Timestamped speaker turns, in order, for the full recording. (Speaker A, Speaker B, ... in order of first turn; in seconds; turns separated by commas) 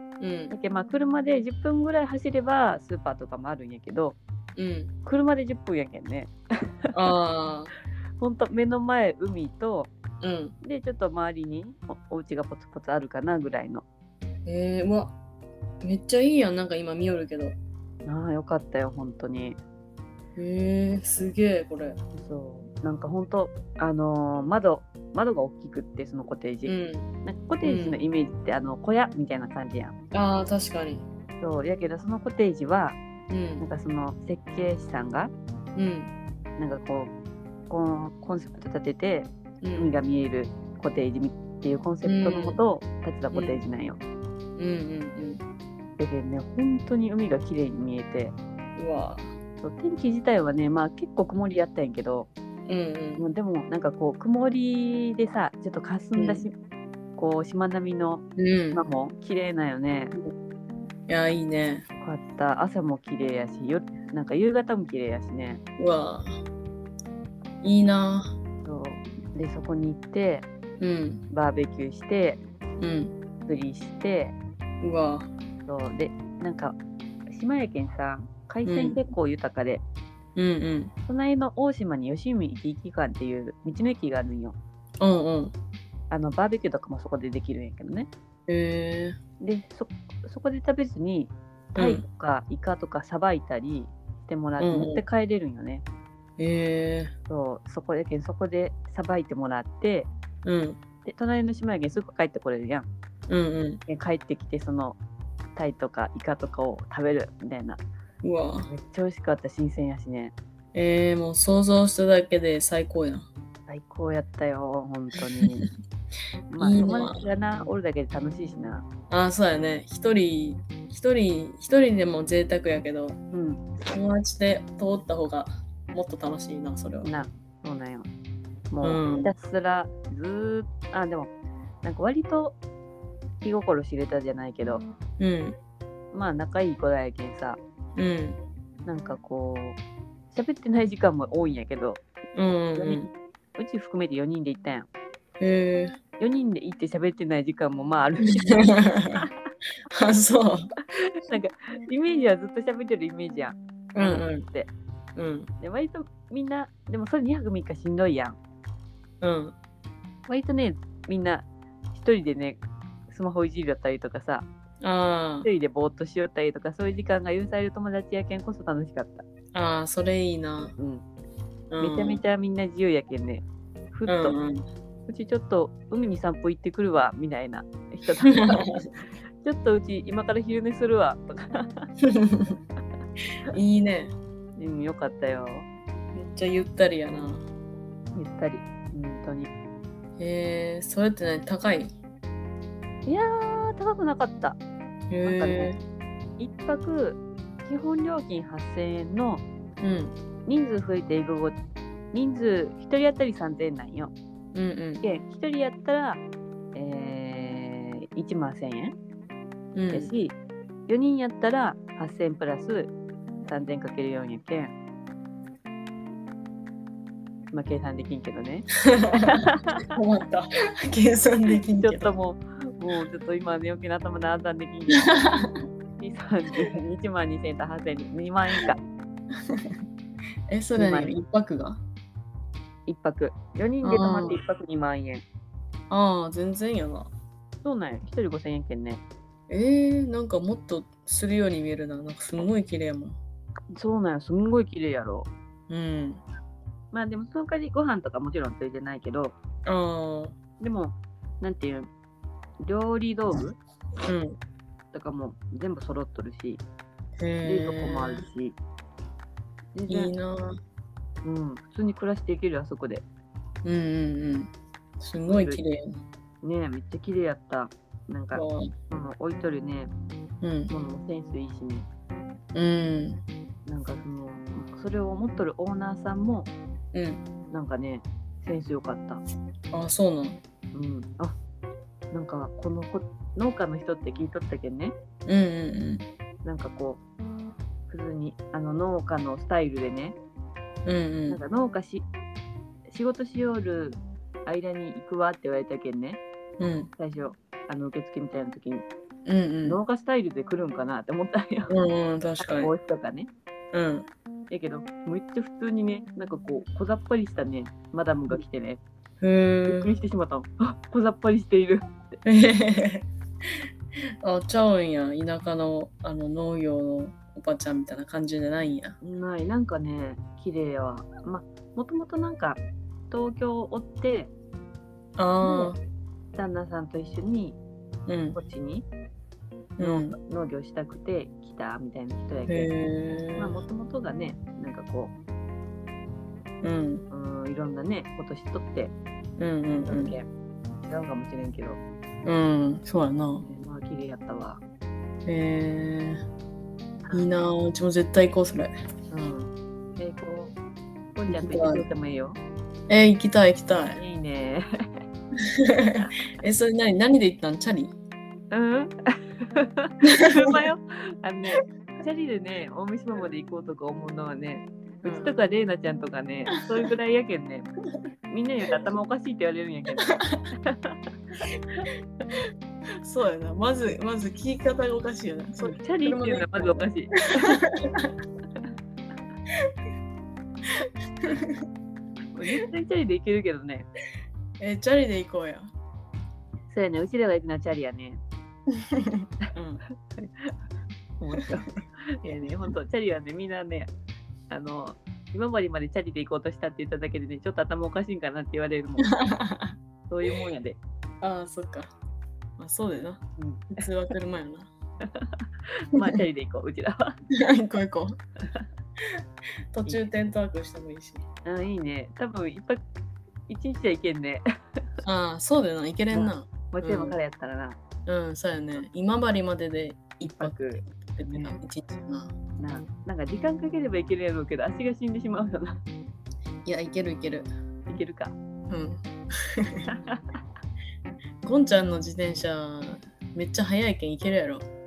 Speaker A: 0.2-0.5, Speaker B: 0.5-4.2, Speaker A: 4.5-4.9, Speaker B: 5.0-6.3, Speaker A: 6.9-7.7, Speaker B: 8.2-9.9, Speaker A: 10.2-10.5, Speaker B: 10.6-13.8, Speaker A: 14.4-15.1, Speaker A: 15.8-17.6, Speaker B: 18.0-19.6, Speaker A: 20.4-22.0, Speaker B: 22.1-29.9, Speaker A: 26.6-27.1, Speaker A: 27.6-28.0, Speaker A: 30.1-31.0, Speaker B: 31.4-33.0, Speaker A: 33.3-33.6, Speaker B: 33.6-35.3, Speaker A: 35.8-36.1, Speaker B: 36.6-37.1, Speaker B: 37.7-44.0, Speaker A: 39.6-39.9, Speaker A: 42.0-42.6, Speaker A: 43.3-43.6, Speaker A: 44.5-45.4, Speaker B: 46.0-48.3, Speaker A: 48.8-49.3, Speaker B: 49.6-52.3, Speaker A: 52.6-53.2, Speaker B: 53.2-56.5, Speaker A: 56.1-56.4, Speaker B: 57.2-60.1, Speaker A: 58.4-58.8, Speaker A: 61.1-61.8, Speaker B: 62.0-65.6, Speaker A: 65.8-66.3, Speaker A: 67.6-68.3, Speaker B: 68.6-70.5, Speaker A: 70.8-71.2, Speaker B: 71.3-72.4, Speaker A: 72.8-73.1, Speaker B: 73.5-74.4, Speaker A: 74.8-75.3, Speaker B: 75.7-76.8, Speaker B: 77.3-79.8, Speaker A: 78.7-79.0, Speaker A: 80.3-80.9, Speaker B: 81.1-84.5, Speaker A: 85.0-85.5, Speaker B: 86.1-88.1, Speaker A: 88.5-89.2, Speaker B: 89.4-95.8, Speaker A: 91.8-92.0, Speaker A: 94.6-95.0, Speaker A: 96.4-97.1, Speaker B: 97.3-100.1, Speaker A: 100.4-100.8, Speaker B: 101.0-102.9, Speaker A: 103.3-103.8, Speaker B: 103.9-105.0, Speaker B: 105.5-107.8, Speaker A: 108.2-108.7, Speaker B: 108.7-110.3, Speaker A: 110.7-113.3, Speaker B: 113.7-115.7, Speaker B: 116.5-118.8, Speaker A: 116.6-117.2, Speaker A: 119.1-123.2, Speaker B: 123.3-123.6, Speaker A: 123.9-127.1, Speaker B: 127.0-128.1, Speaker B: 128.7-131.3, Speaker A: 128.8-129.3, Speaker B: 131.8-132.6, Speaker B: 133.4-134.8, Speaker A: 135.2-135.6, Speaker B: 136.1-137.6, Speaker A: 137.9-138.4, Speaker B: 138.8-139.8, Speaker B: 140.3-142.0, Speaker A: 142.3-143.1, Speaker B: 142.7-143.1, Speaker B: 143.6-144.9, Speaker A: 145.4-146.0, Speaker B: 146.2-149.3, Speaker A: 148.3-149.2, Speaker A: 149.9-150.7, Speaker B: 150.9-154.7, Speaker A: 153.9-154.4, Speaker A: 155.2-155.5, Speaker B: 155.6-158.4, Speaker A: 159.2-159.5, Speaker B: 160.3-164.5, Speaker A: 164.8-165.5, Speaker B: 165.4-169.2, Speaker A: 169.5-170.7, Speaker B: 170.8-171.0, Speaker A: 171.7-172.2, Speaker B: 171.8-174.4, Speaker A: 174.1-174.6, Speaker B: 175.1-178.7, Speaker A: 178.2-178.9, Speaker B: 179.4-181.9, Speaker A: 182.0-182.6, Speaker A: 183.5-184.1, Speaker B: 184.6-185.7, Speaker A: 186.1-187.4, Speaker B: 188.1-189.5, Speaker A: 190.2-191.9, Speaker B: 193.0-194.6, Speaker A: 195.1-195.8, Speaker B: 195.2-195.7, Speaker B: 196.4-199.4, Speaker A: 199.8-200.1, Speaker B: 200.4-201.6, Speaker B: 202.1-204.1, Speaker A: 204.5-205.0, Speaker B: 205.0-206.2, Speaker B: 206.7-208.9, Speaker A: 209.7-210.1, Speaker B: 209.9-210.3, Speaker B: 210.9-212.9, Speaker B: 213.5-214.7, Speaker B: 217.5-219.8, Speaker A: 218.9-222.2, Speaker B: 221.8-225.1, Speaker A: 224.9-225.5, Speaker B: 226.0-228.8, Speaker A: 230.5-231.8, Speaker B: 230.8-231.1, Speaker B: 232.9-235.2, Speaker A: 233.8-234.3, Speaker A: 235.9-237.1, Speaker B: 237.6-239.0, Speaker A: 239.5-243.2, Speaker B: 243.7-245.3, Speaker A: 245.7-246.2, Speaker B: 246.9-249.4, Speaker A: 249.7-250.3, Speaker B: 250.6-251.9, Speaker B: 252.6-253.6, Speaker A: 254.0-254.3, Speaker B: 254.9-256.6, Speaker A: 257.2-258.2, Speaker B: 257.4-258.6, Speaker B: 259.7-260.1, Speaker A: 259.9-260.6, Speaker B: 261.2-263.0, Speaker A: 263.6-266.0, Speaker B: 265.3-265.6, Speaker B: 266.4-269.9, Speaker A: 268.3-268.7, Speaker A: 270.4-270.7, Speaker B: 270.7-271.9, Speaker A: 272.5-273.2, Speaker B: 273.6-276.5, Speaker A: 276.9-277.2, Speaker B: 277.5-279.2, Speaker A: 279.7-280.4, Speaker B: 280.7-281.4, Speaker B: 282.1-284.9, Speaker A: 285.2-286.0, Speaker B: 286.4-287.0, Speaker B: 287.9-290.2, Speaker A: 290.9-291.4, Speaker B: 291.3-292.1, Speaker B: 292.9-296.2, Speaker A: 296.6-296.9, Speaker B: 297.0-298.9, Speaker A: 299.2-299.8, Speaker B: 299.6-301.7, Speaker A: 301.7-302.7, Speaker B: 302.4-303.3, Speaker A: 303.7-304.1, Speaker B: 304.5-308.8, Speaker A: 309.2-309.9, Speaker B: 309.7-312.2, Speaker A: 312.2-313.1, Speaker A: 314.2-319.0, Speaker B: 319.0-324.3, Speaker A: 325.2-325.8, Speaker B: 325.4-325.7, Speaker B: 326.3-327.6, Speaker A: 328.1-328.4, Speaker B: 328.3-328.9, Speaker A: 329.8-330.2, Speaker B: 329.8-332.7, Speaker A: 332.5-333.6, Speaker B: 333.4-335.1, Speaker A: 336.6-337.0, Speaker B: 337.1-338.9, Speaker A: 339.4-340.1, Speaker B: 339.8-340.3, Speaker B: 340.9-341.8, Speaker A: 342.2-343.4, Speaker B: 343.4-344.6, Speaker A: 345.2-346.2, Speaker B: 347.0-347.3, Speaker A: 347.1-348.7, Speaker B: 349.1-350.5, Speaker B: 351.1-352.4, Speaker A: 351.3-351.8, Speaker A: 352.9-354.0, Speaker B: 353.9-354.6, Speaker A: 355.4-357.9, Speaker B: 358.5-367.7, Speaker A: 360.0-360.6, Speaker A: 365.0-365.3, Speaker B: 368.3-370.1, Speaker A: 370.1-370.4, Speaker B: 370.6-371.0, Speaker A: 373.0-376.8, Speaker B: 375.6-377.6, Speaker A: 377.4-378.1, Speaker A: 380.7-381.6, Speaker B: 382.3-383.9, Speaker A: 384.6-385.7, Speaker B: 386.7-388.2, Speaker A: 388.8-389.8, Speaker B: 390.1-390.5, Speaker B: 391.2-393.9, Speaker B: 394.5-399.1, Speaker A: 399.1-399.7, Speaker B: 400.1-400.8, Speaker A: 401.2-401.9, Speaker A: 402.6-404.7, Speaker B: 403.4-403.8, Speaker B: 405.1-407.2, Speaker A: 407.3-408.2, Speaker A: 409.7-411.2, Speaker B: 411.4-412.8, Speaker B: 413.5-414.4, Speaker A: 415.0-417.1, Speaker B: 416.1-417.8, Speaker A: 418.1-422.3, Speaker B: 420.2-421.6, Speaker B: 422.6-425.8, Speaker A: 426.6-427.5, Speaker B: 427.9-428.4, Speaker A: 428.7-429.9, Speaker B: 429.9-430.2, Speaker A: 431.4-434.6